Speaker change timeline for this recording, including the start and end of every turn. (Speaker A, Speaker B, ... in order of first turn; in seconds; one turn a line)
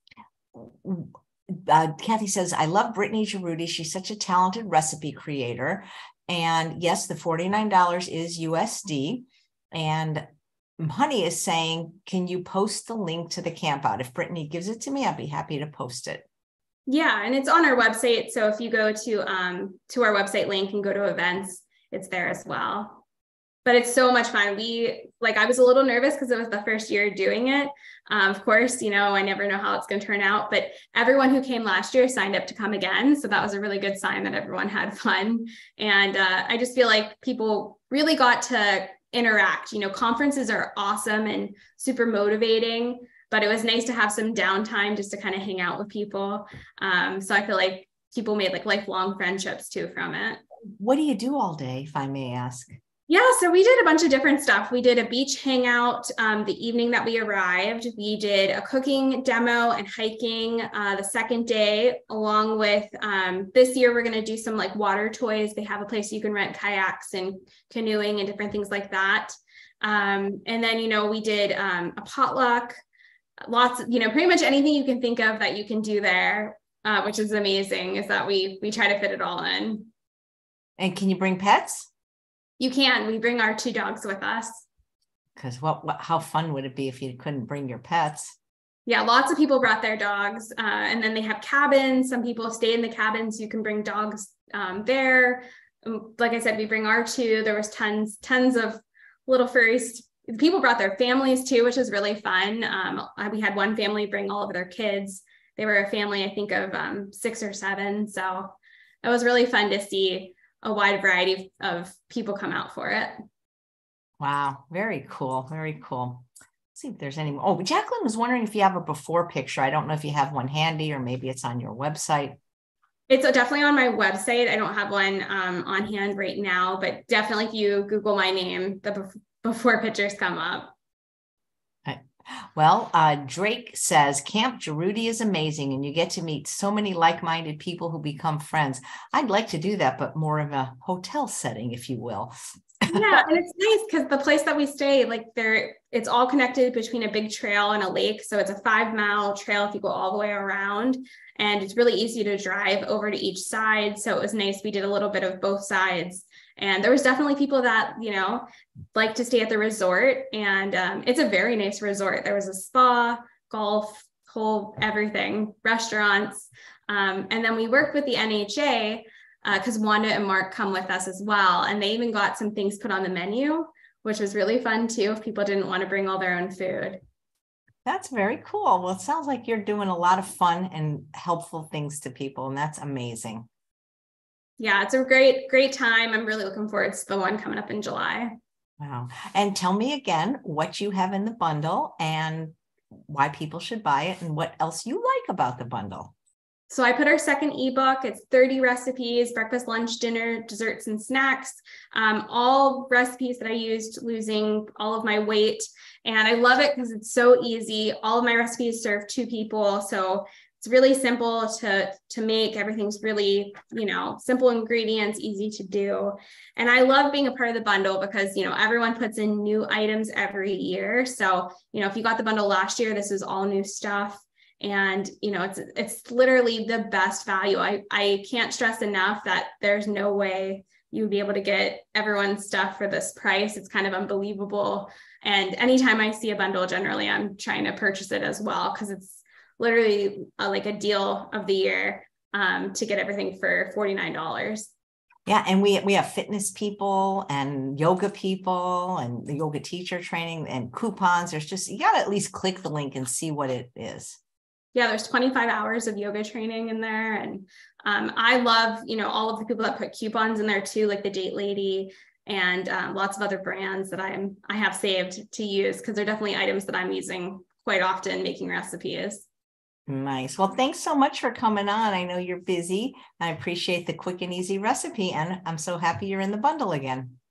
Speaker A: 0.5-10.2
Speaker A: 10.8-16.2
Speaker B: 16.9-23.0
Speaker B: 23.6-50.4
Speaker A: 50.8-52.7
Speaker B: 53.1-72.7
Speaker B: 73.4-79.9
Speaker A: 80.8-81.9
Speaker B: 82.6-84.6
Speaker A: 85.4-88.3
Speaker B: 88.8-113.1
Speaker A: 114.2-122.4
Speaker B: 123.1-130.7
Speaker A: 131.8-143.2
Speaker B: 142.9-177.0
Speaker A: 177.8-183.5
Speaker B: 184.6-188.3
Speaker A: 188.8-196.1
Speaker B: 196.7-244.7
Speaker A: 245.3-254.2
Speaker B: 254.7-269.3
Speaker A: 269.9-277.2